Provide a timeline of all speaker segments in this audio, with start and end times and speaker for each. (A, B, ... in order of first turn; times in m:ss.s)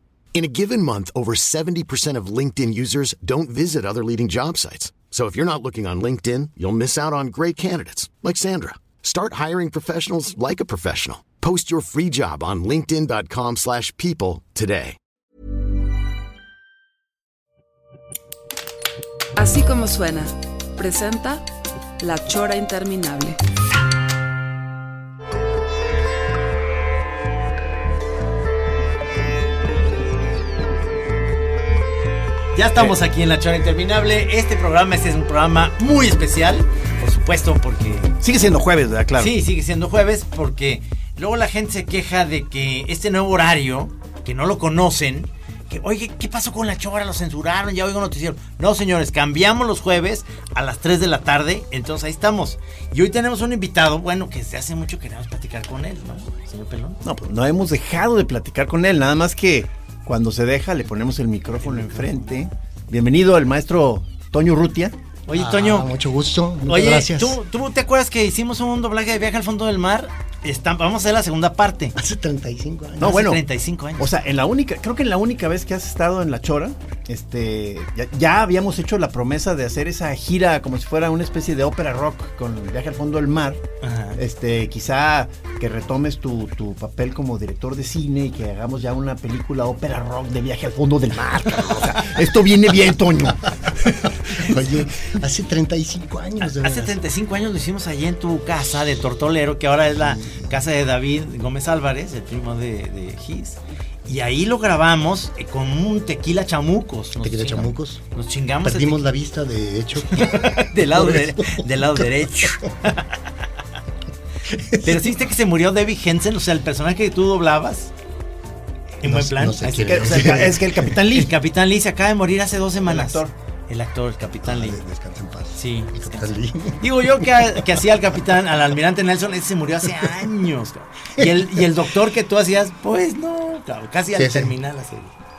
0:00.3-0:15.0 A
0:19.4-0:21.4 B
0:22.0-0:23.4 B
0:32.5-0:38.1 C
0:38.2-0:39.3 D
0:39.2-0:57.0 C
0:57.0-1:05.0 D
1:01.6-1:02.2 C
1:05.3-1:05.9 C
1:05.3-1:07.4 E
1:06.7-1:12.0 C
1:12.0-1:13.2 E
1:13.0-1:13.4 D
1:13.0-1:14.1 C
1:14.0-1:23.6 D
1:23.8-1:24.2 C
1:24.2-1:33.5 D
1:34.4-1:37.0 E
1:36.5-1:49.0 C
1:40.0-1:40.4 E
1:47.2-1:48.0 E
1:48.6-1:52.0 E
1:50.1-1:53.1 C
1:54.5-1:55.1 E
1:54.8-1:57.9 C
1:59.0-2:04.8 C
1:59.0-2:00.9 E
1:59.8-2:01.3 D
2:02.8-2:03.3 D
2:04.4-2:06.8 E
2:05.6-2:15.1 C
2:11.2-2:11.4 E
2:14.1-2:14.6 E